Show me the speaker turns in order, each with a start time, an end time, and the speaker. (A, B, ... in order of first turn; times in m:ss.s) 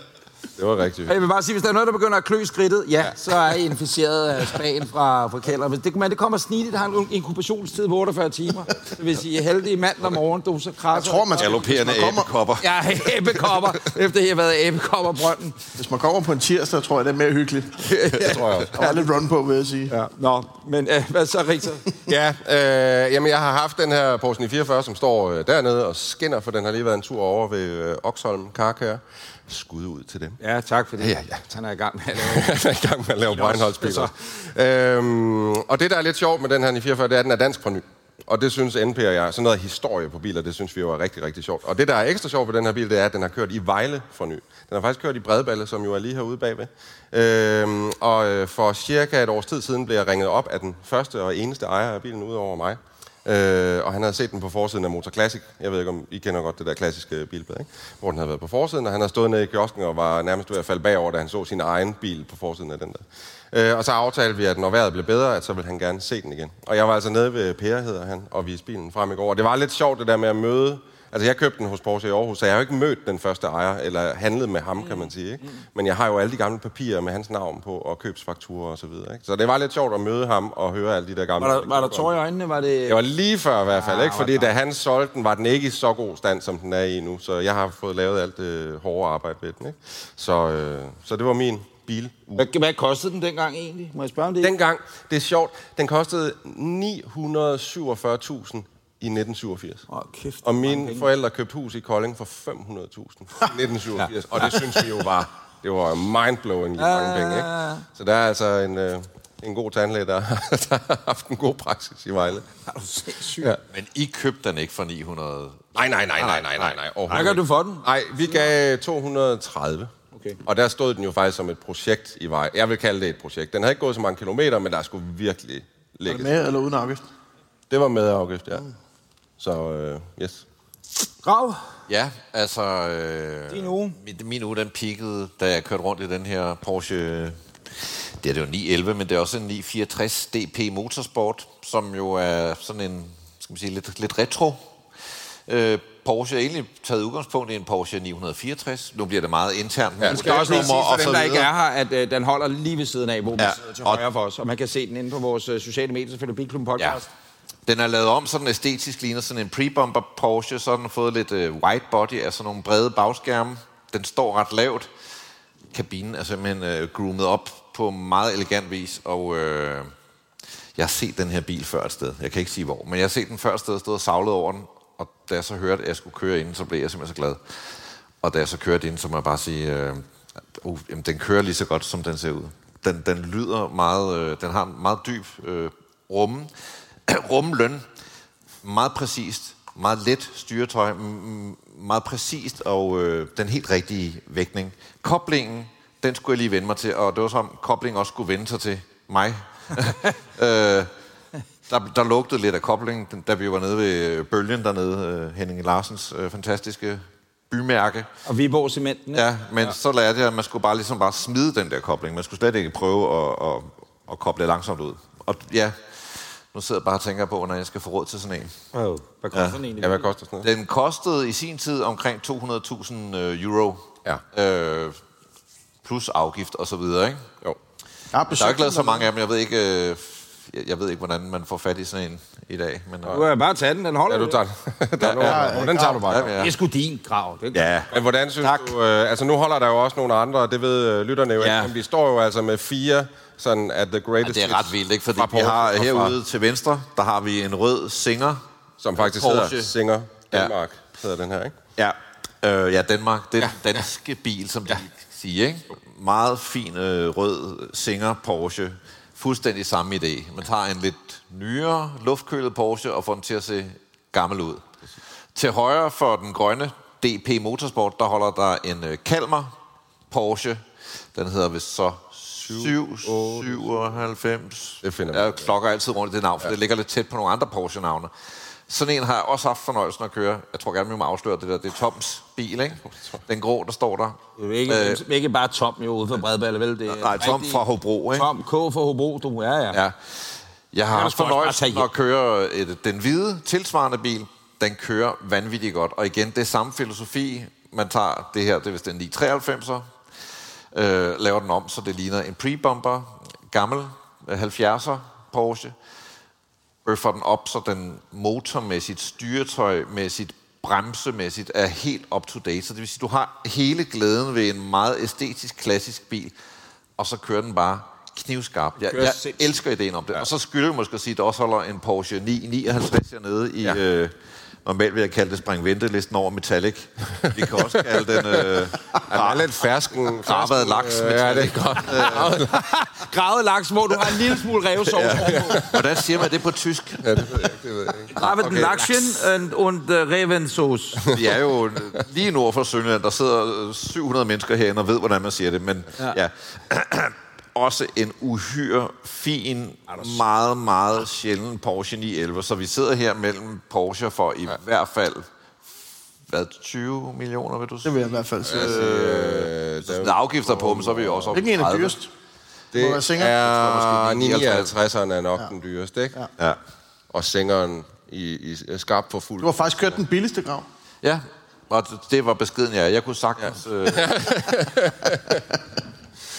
0:00.6-0:01.1 A
0:01.0-0:11.6 B
0:10.9-0:12.3 C
0:11.4-0:13.5 D
0:12.6-0:15.6 B
0:15.8-0:17.8 C
0:17.8-0:19.1 B
0:18.2-0:18.7 A
0:18.7-0:19.9 C
0:19.9-0:21.8 B
0:22.1-0:30.4 A
0:30.4-0:32.5 B
0:31.0-0:31.4 A
0:32.2-1:22.1 A
0:33.3-0:34.1 B
1:21.4-1:23.0 B
1:22.9-1:32.4 A
1:23.7-1:24.5 B
1:32.4-1:34.5 B
1:34.4-1:39.8 A
1:39.9-1:41.1 B
1:40.4-1:52.4 A
1:46.8-1:47.8 B
1:52.7-1:53.5 B
1:53.7-1:56.8 D
1:55.7-1:59.9 A
1:57.1-1:57.8 B
2:00.4-2:06.3 A
2:06.0-2:07.0 C
2:07.7-2:08.6 A
2:09.4-2:10.4 A
2:11.2-2:11.6 B
2:11.9-2:24.6 D
2:13.5-2:14.0 B
2:25.5-2:31.5 D
2:30.0-2:30.7 A
2:30.1-2:37.1 B
2:33.4-2:34.0 D
2:37.6-2:44.9 D
2:45.7-2:49.9 D
2:50.8-2:57.4 D
2:58.2-3:00.0 D
3:00.6-3:06.5 D
3:07.1-3:07.8 D
3:08.6-3:20.9 D
3:21.7-3:28.1 D
3:28.2-3:29.7 B
3:29.1-3:38.5 D
3:38.7-3:40.1 B
3:39.3-3:39.6 D
3:39.8-3:40.5 A
3:40.4-3:45.0 D
3:45.8-3:47.2 D
3:48.1-3:49.1 C
3:48.3-3:53.2 D
3:53.1-3:54.4 B
3:54.1-3:56.4 A
3:55.0-3:56.5 D
3:55.2-3:56.1 C
3:56.4-3:57.6 B
3:57.5-3:58.7 D
3:57.9-4:06.2 A
4:01.4-4:01.7 D
4:04.2-4:08.4 D
4:08.8-4:11.5 A
4:09.0-4:09.7 D
4:11.8-4:24.6 D
4:25.3-4:29.5 D
4:30.1-4:30.6 D
4:31.1-4:38.1 D
4:32.5-4:33.8 A
4:34.8-4:35.5 A
4:38.7-4:45.0 D
4:44.4-4:47.6 B
4:46.9-4:48.3 D
4:48.1-4:49.8 B
4:49.7-4:59.8 D
4:50.9-4:51.9 B
5:00.7-5:05.7 D
5:06.8-5:16.3 D
5:17.0-5:24.1 D
5:19.0-5:19.3 B
5:24.6-5:29.6 D
5:28.1-5:32.6 A
5:30.1-5:32.4 D
5:32.5-5:35.7 B
5:34.9-5:37.5 D
5:35.3-5:35.8 A
5:37.0-5:38.7 A
5:38.2-5:41.0 B
5:38.2-5:38.8 D
5:41.1-5:55.2 D
5:49.9-5:50.2 B
5:56.3-6:02.0 D
5:57.8-5:58.8 C
5:58.4-6:01.4 A
6:01.3-6:02.1 C
6:02.7-6:06.2 A
6:02.8-6:03.3 C
6:03.2-6:04.7 D
6:07.1-6:10.0 A
6:09.4-6:10.6 C
6:11.0-6:14.0 D
6:13.4-6:15.4 A